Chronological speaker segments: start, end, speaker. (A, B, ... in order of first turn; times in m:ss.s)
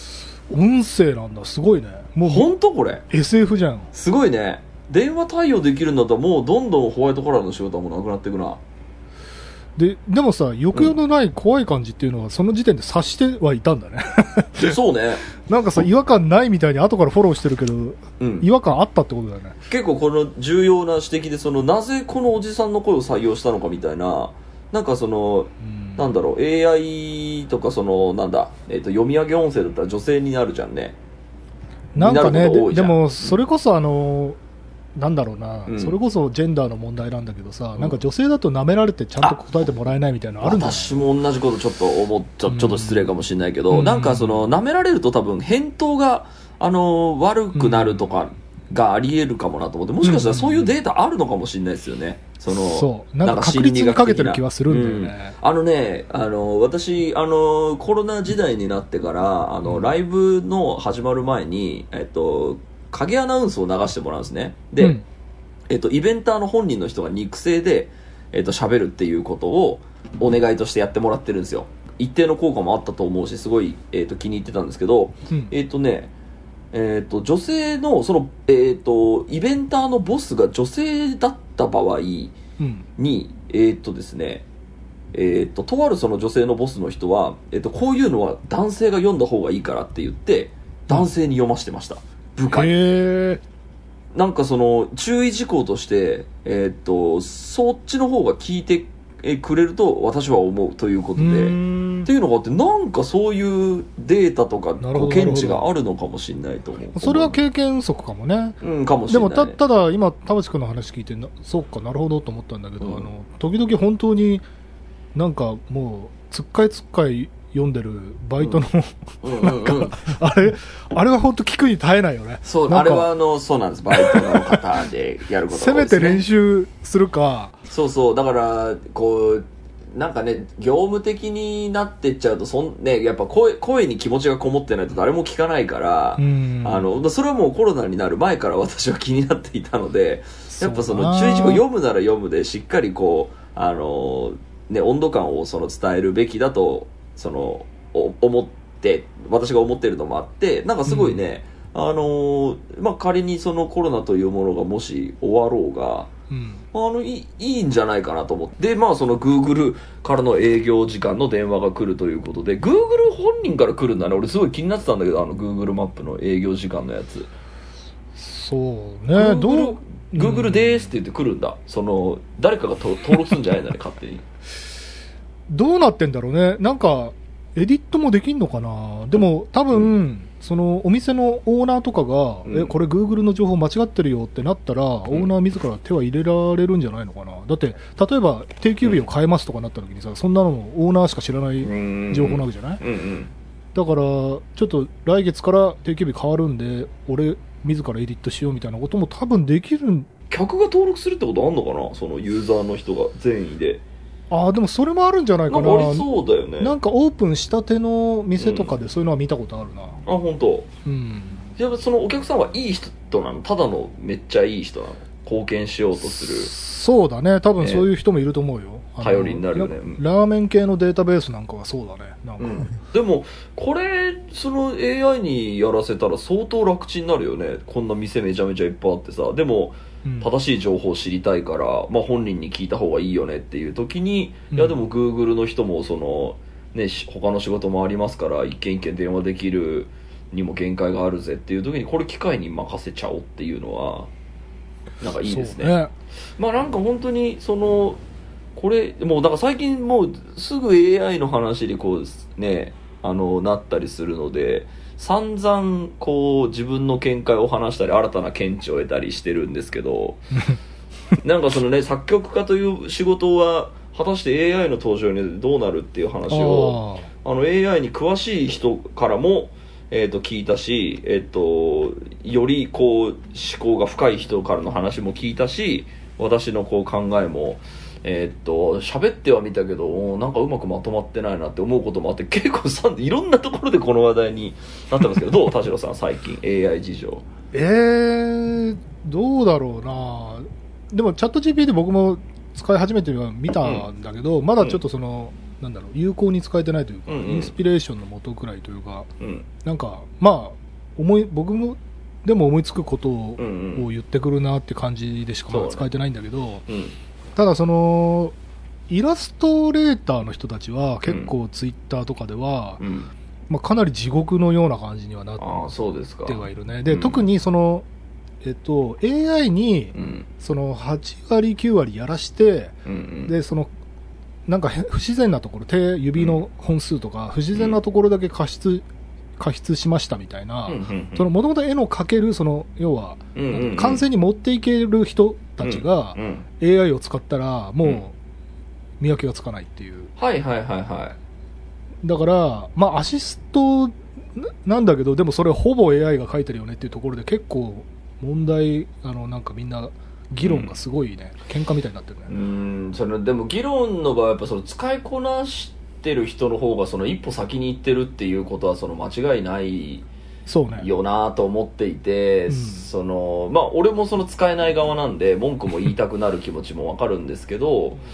0:00.5-0:02.5 A
0:02.3-0:03.0 B
0:03.1-0:03.9 A
0:03.9-0:08.6 B
0:09.8-0:14.8 A
0:14.6-0:15.2 B
0:15.4-0:19.6 A
0:18.2-0:18.5 B
0:19.7-0:31.0 B
0:25.6-0:26.1 A
0:31.9-0:34.4 A
0:32.0-0:33.4 B
0:34.9-0:41.0 A
0:35.7-0:35.9 B
0:40.4-1:05.0 B
0:42.5-0:43.0 A
0:43.7-0:44.5 A
0:47.5-0:48.1 A
0:50.0-0:50.7 A
0:52.5-0:55.4 A
1:04.8-1:05.0 A
1:05.7-1:16.1 B
1:16.7-1:22.3 B
1:22.6-1:22.9 A
1:23.0-1:24.4 B
1:25.1-1:32.7 B
1:32.5-1:33.4 A
1:34.1-1:47.4 B
1:41.2-1:42.1 A
1:44.8-1:45.6 A
1:46.9-1:54.4 A
1:48.6-1:49.6 B
1:52.8-1:53.1 B
1:55.1-2:03.1 A
1:59.2-2:00.1 B
2:02.4-2:06.2 B
2:03.9-2:04.6 A
2:05.5-2:07.6 A
2:07.7-2:36.1 B
2:16.2-2:16.9 A
2:20.5-2:21.6 A
2:30.9-2:31.2 A
2:36.3-2:36.6 A
2:36.7-2:47.3 B
2:48.2-2:50.8 A
2:49.1-2:54.2 B
2:55.5-3:12.8 A
3:02.4-3:02.7 B
3:11.6-3:13.3 B
3:13.7-3:20.1 A
3:20.3-3:23.8 B
3:24.3-3:26.1 A
3:25.5-3:26.7 B
3:26.6-3:30.0 A
3:28.4-3:28.7 B
3:30.0-3:30.7 B
3:30.8-3:31.5 A
3:31.6-3:36.5 B
3:36.0-3:42.7 A
3:37.6-3:37.9 B
3:39.0-3:40.0 B
3:42.4-4:04.1 B
3:50.0-3:50.3 A
3:54.5-3:54.8 A
4:05.0-4:05.8 B
4:05.2-4:05.9 A
4:06.4-4:08.0 B
4:08.5-4:20.2 B
4:21.2-4:47.2 B
4:26.3-4:27.1 A
4:47.5-4:59.1 A
4:57.1-4:57.5 B
4:59.2-4:59.4 B
4:59.6-5:06.6 A
5:03.4-5:03.8 B
5:05.5-5:05.9 B
5:06.7-5:07.0 B
5:07.4-5:08.3 A
5:08.9-5:12.8 A
5:12.8-5:13.1 B
5:13.5-5:17.8 A
5:15.4-5:17.2 B
5:18.4-5:23.7 A
5:19.9-5:20.2 B
5:22.8-5:23.3 B
5:24.5-5:28.8 A
5:29.4-5:38.1 A
5:30.7-5:31.3 B
5:33.3-5:34.0 B
5:35.6-5:36.4 B
5:39.0-5:40.1 A
5:40.2-5:41.2 B
5:42.0-5:52.3 A
5:50.4-5:50.7 B
5:52.3-6:00.0 B
6:00.4-6:00.9 A
6:00.8-6:08.0 B
6:02.5-6:02.9 A